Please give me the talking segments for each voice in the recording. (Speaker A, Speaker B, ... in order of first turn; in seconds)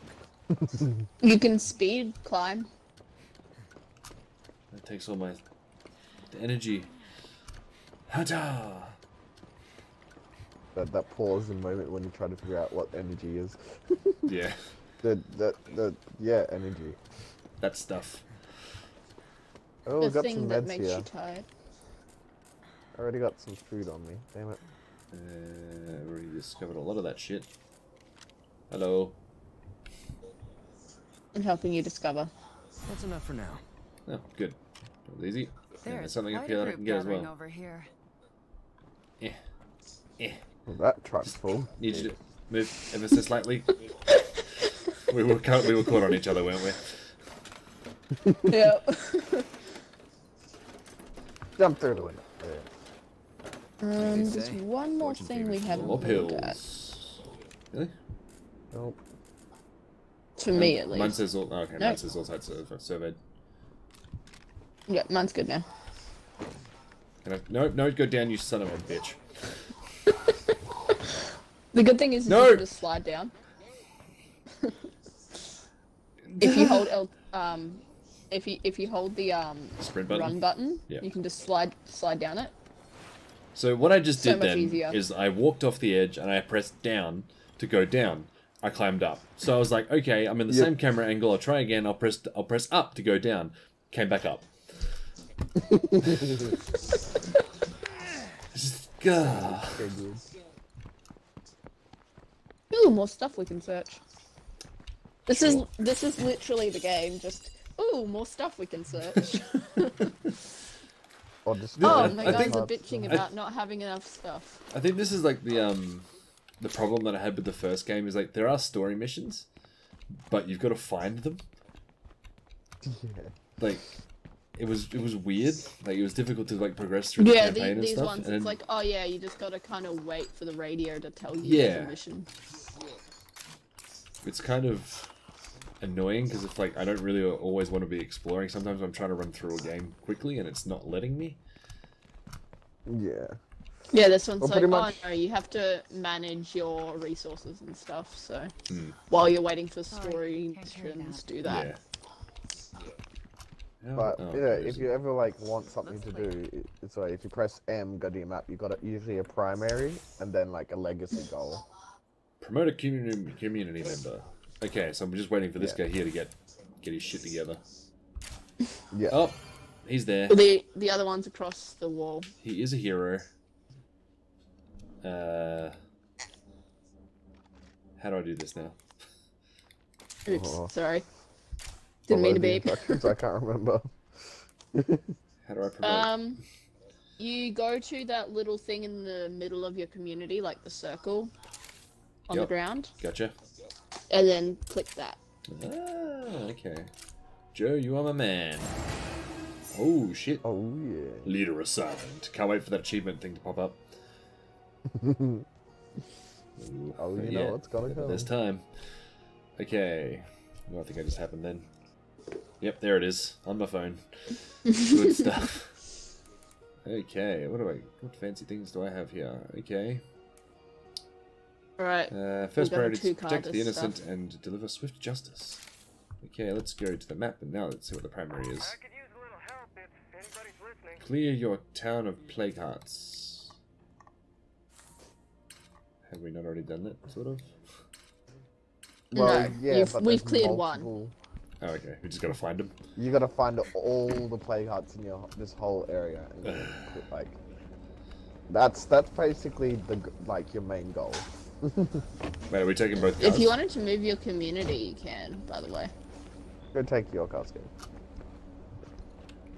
Speaker A: 0.5-1.1, 10.8-14.2, 15.0-17.0, 19.9-21.1, 22.9-24.6, 40.7-42.1, 48.1-48.7, 51.6-52.7, 58.7-59.0, 95.6-96.5, 99.2-100.3, 111.5-113.2, 122.8-123.3, 142.9-143.4, 144.4-145.0, 153.9-161.7, 168.9-169.2, 180.3-180.7, 182.1-185.1, 200.4-201.3, 204.9-205.5, 207.0-208.3, 239.1-241.2, 243.0-247.4, 248.5-252.0, 256.7-257.7
Speaker B: 1.2-2.7, 20.0-21.5, 31.3-32.3, 48.5-49.5, 53.8-56.6, 60.4-61.2, 64.9-65.7, 70.1-70.4, 71.7-73.3, 76.4-82.5, 84.2-85.0, 102.7-104.0, 105.3-110.0, 111.8-114.6, 127.2-132.3, 143.9-148.5, 149.1-151.7, 170.3-172.3, 180.3-181.1, 182.1-183.1, 185.8-186.4, 187.2-191.3, 192.3-192.9, 194.1-195.2, 214.7-215.0, 221.8-224.0, 239.1-240.9, 253.2-255.9
Speaker C: 4.7-5.4, 6.3-6.9, 8.1-9.0, 14.3-14.8, 17.6-18.8, 25.1-27.5, 28.7-29.2, 34.1-37.3, 41.8-43.8, 45.1-47.2, 55.7-57.2, 60.5-63.2, 67.2-69.7, 72.3-72.7, 76.3-76.8, 79.8-80.4, 83.5-94.9, 96.1-96.4, 98.5-99.9, 105.3-105.7, 111.8-113.3, 114.7-116.1, 116.6-119.5, 120.3-121.4, 123.6-123.8, 124.6-128.5, 131.4-131.9, 134.2-135.1, 135.8-141.4, 148.7-149.0, 151.4-151.8, 153.8-154.9, 162.4-167.6, 169.1-170.4, 172.4-173.3, 175.0-175.8, 178.0-178.8, 185.4-186.4, 192.3-193.3, 195.5-196.9, 197.5-198.8, 199.7-200.4, 201.2-203.8, 206.6-209.0, 209.6-211.7, 212.6-215.8, 216.8-220.0, 222.1-225.6, 226.2-228.8, 231.0-233.5, 236.1-237.8, 241.6-242.8, 246.4-247.0, 252.5-253.6
Speaker D: 32.9-33.6, 54.0-56.1
Speaker E: 35.8-37.9, 149.9-151.4, 155.8-156.4
Speaker F: 228.6-231.0